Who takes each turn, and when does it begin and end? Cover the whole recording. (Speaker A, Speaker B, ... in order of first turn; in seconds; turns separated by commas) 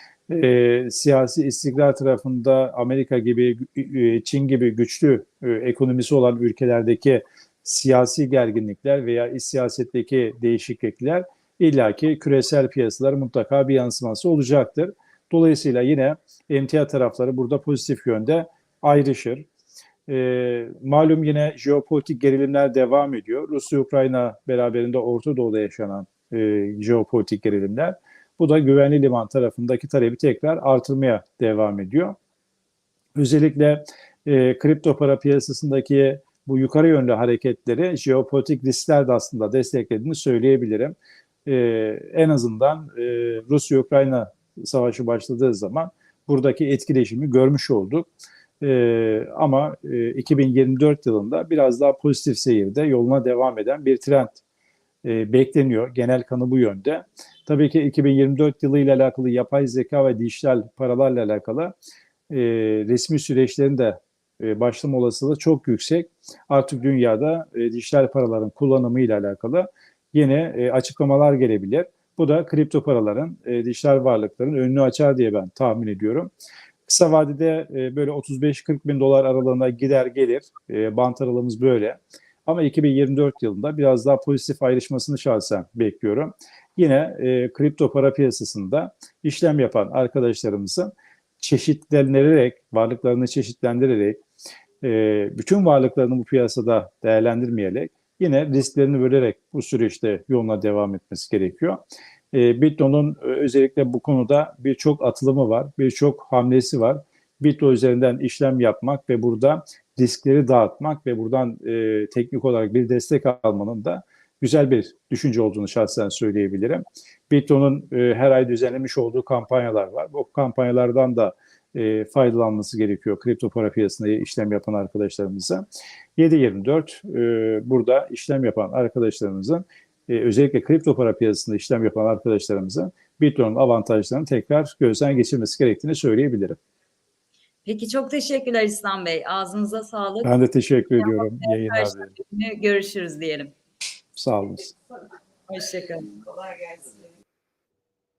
Speaker A: 0.3-19.5, Speaker A: 20.1-32.1, Speaker A: 33.1-48.1, Speaker A: 48.6-54.4, Speaker A: 55.0-61.7, Speaker A: 62.3-76.3, Speaker A: 76.9-94.2, Speaker A: 94.8-101.8, Speaker A: 102.3-125.7, Speaker A: 126.2-136.6, Speaker B: 137.6-140.3, Speaker A: 140.2-142.1, Speaker B: 141.0-143.5, Speaker A: 144.2-144.7, Speaker B: 145.5-146.9